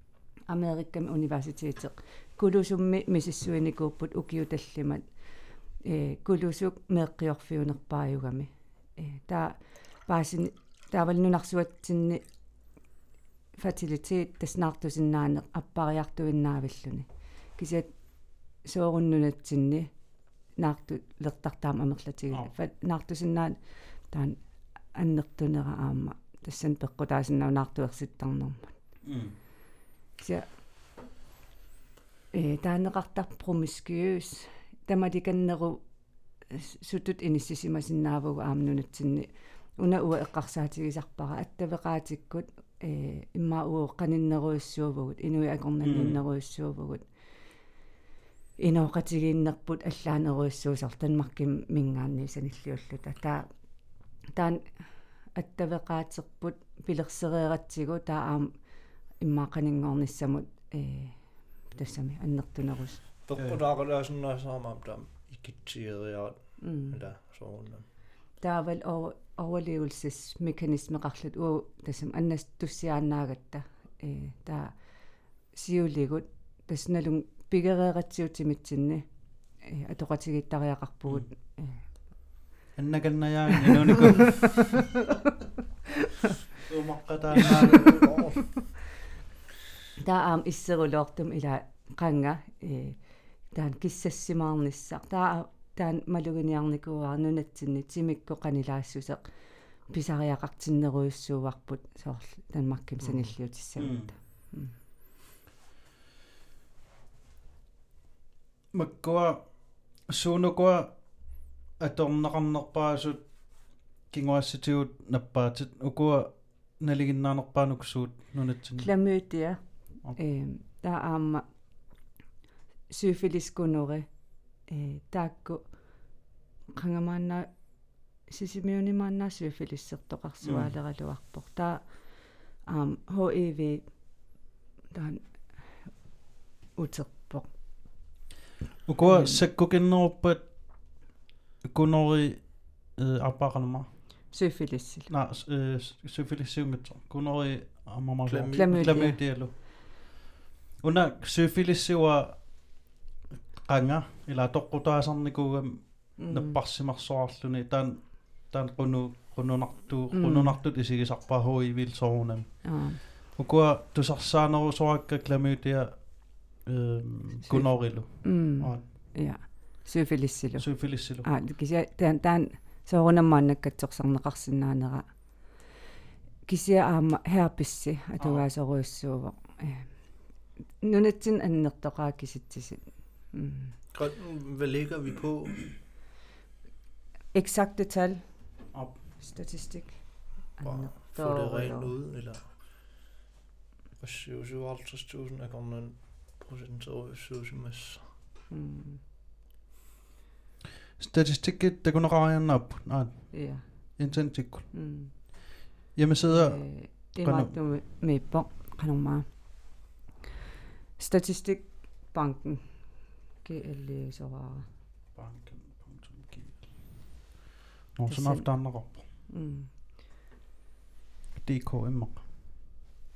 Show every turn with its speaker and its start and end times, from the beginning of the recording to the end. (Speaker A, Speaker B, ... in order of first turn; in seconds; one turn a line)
Speaker A: 0.5-5.0
Speaker A: 5.8-12.2
Speaker A: 13.6-17.9
Speaker A: 18.6-19.9
Speaker A: 20.6-23.6
Speaker A: 24.1-24.4
Speaker A: 24.9-28.7
Speaker B: 29.0-29.4
Speaker A: 30.2-30.5
Speaker A: 32.3-35.8
Speaker A: 36.5-47.1
Speaker B: 45.8-46.2
Speaker A: 48.6-53.5
Speaker A: 54.3-54.6
Speaker A: 55.3-58.5
Speaker A: 59.2-63.0
Speaker C: 63.2-67.8
Speaker A: 66.6-67.0
Speaker A: 68.4-74.8
Speaker A: 75.5-79.0
Speaker A: 79.6-81.9
Speaker B: 82.8-84.7
Speaker B: 86.6-88.3
Speaker C: 87.7-88.3
Speaker A: 90.0-93.0
Speaker A: 93.5-99.2
Speaker A: 99.9-104.7
Speaker C: 103.0-103.3
Speaker B: 103.8-104.1
Speaker B: 108.7-118.9
Speaker A: 118.8-119.6
Speaker A: 120.1-121.4
Speaker A: 122.9-124.1
Speaker A: 124.7-125.7
Speaker A: 126.7-127.5
Speaker A: 128.3-132.1
Speaker B: 130.4-130.7
Speaker A: 132.6-134.0
Speaker A: 134.9-135.9
Speaker A: 136.8-137.5
Speaker B: 138.8-140.5
Speaker A: 139.0-139.4
Speaker B: 141.6-143.9
Speaker A: 144.3-145.1
Speaker B: 145.1-150.2
Speaker C: 148.2-149.1
Speaker A: 148.5-149.2
Speaker B: 150.8-152.7
Speaker B: 153.6-169.1
Speaker A: 156.2-156.6
Speaker A: 160.1-160.6
Speaker A: 162.6-163.0
Speaker A: 167.4-175.1
Speaker B: 170.6-171.3
Speaker A: 176.4-179.9
Speaker B: 178.2-178.4
Speaker A: 180.8-183.8
Speaker C: 183.9-185.7
Speaker A: 187.3-188.2
Speaker B: 188.7-189.2
Speaker A: 189.2-191.9
Speaker C: 190.6-192.6
Speaker C: 194.0-198.1
Speaker A: 198.5-199.0
Speaker B: 201.0-204.7
Speaker A: 203.3-203.6
Speaker A: 204.7-205.6
Speaker B: 205.9-207.5
Speaker A: 206.2-209.6
Speaker A: 211.0-214.7
Speaker B: 215.1-216.9
Speaker B: 217.9-219.0
Speaker A: 218.1-219.7
Speaker B: 221.3-222.2